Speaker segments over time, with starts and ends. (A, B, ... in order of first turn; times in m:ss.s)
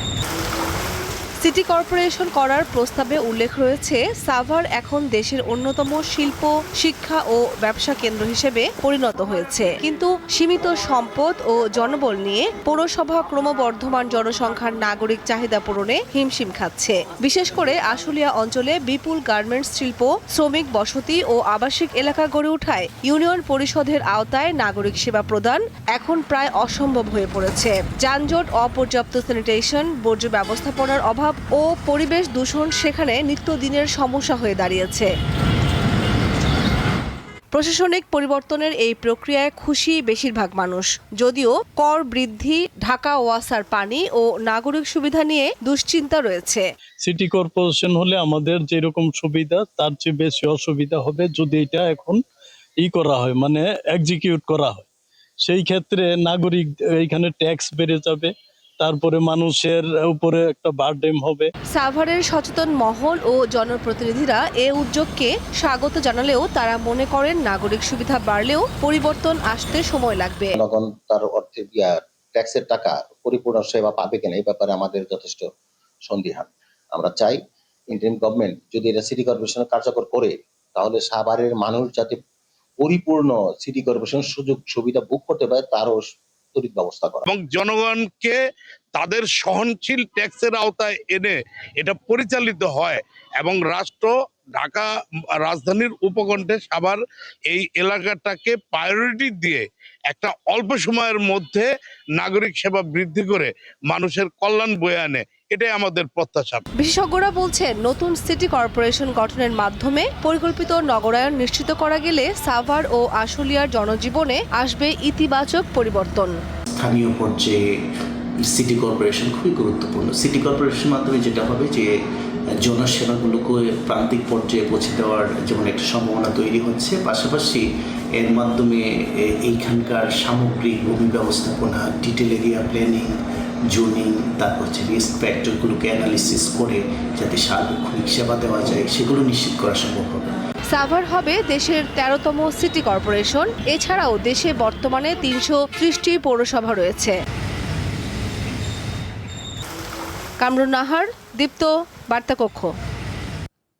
0:01.4-0:35.1 A
0:37.5-0:46.6 A
0:47.0-0:52.2 B
0:52.8-0:54.9 B
0:55.4-1:01.5 B
1:01.7-1:10.5 A
1:10.5-1:15.5 C
1:16.0-1:22.2 C
1:22.8-1:27.3 C
1:27.3-1:28.4 D
1:28.9-1:46.6 D
1:46.8-1:56.3 A
1:56.7-1:57.8 E
1:58.4-2:02.0 E
2:02.6-2:07.6 E
2:08.1-2:13.1 E
2:13.7-2:20.3 E
2:20.7-2:27.2 A
2:30.4-2:32.7 A